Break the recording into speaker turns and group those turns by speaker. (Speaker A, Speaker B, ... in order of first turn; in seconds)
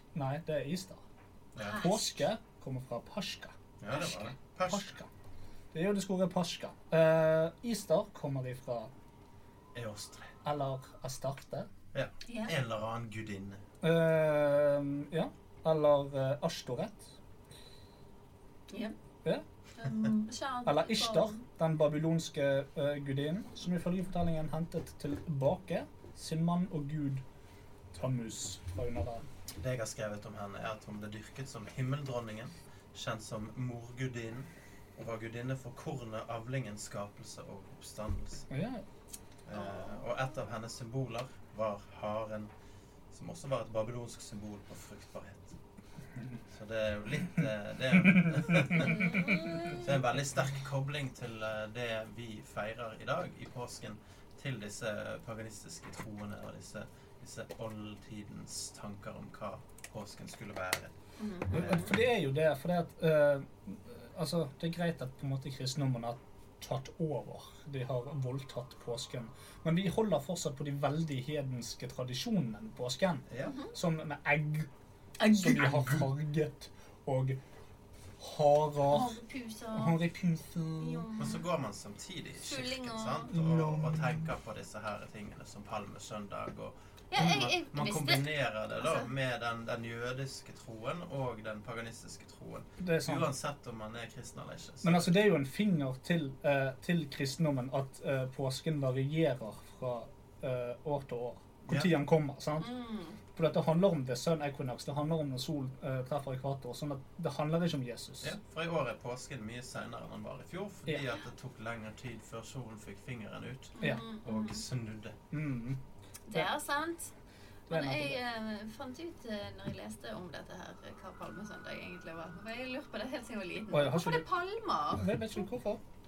Speaker A: 0.1-1.0, 1.8-3.5, 4.7-5.1, 5.7-8.9, 10.4-11.7, 13.8-17.1, 20.6-27.2, 27.9-29.2, 38.5-38.8, 48.0-49.3, 61.5-74.7, 75.3-77.4, 78.2-79.2, 79.7-81.1, 83.3-84.3, 92.8-93.3, 94.8-102.7, 103.3-108.3, 115.3-115.8, 117.7-118.2, 123.7-124.2, 125.0-125.8
Speaker B: 1.5-1.9, 3.8-4.9, 9.7-10.3, 11.9-13.6, 29.6-38.5, 39.5-42.5, 43.1-45.5, 46.5-60.9, 61.5-61.8, 73.3-73.5, 81.2-95.1, 101.7-101.9, 108.2-115.2
Speaker C: 1.6-2.0, 4.0-4.2, 12.3-12.5, 19.8-21.4, 39.5-40.0, 48.8-49.8, 61.2-61.9, 73.4-73.7, 75.2-76.0, 78.9-80.0, 80.8-81.4, 82.4-83.3, 87.1-89.1, 102.6-103.2, 113.8-114.6, 116.3-117.1, 117.7-125.2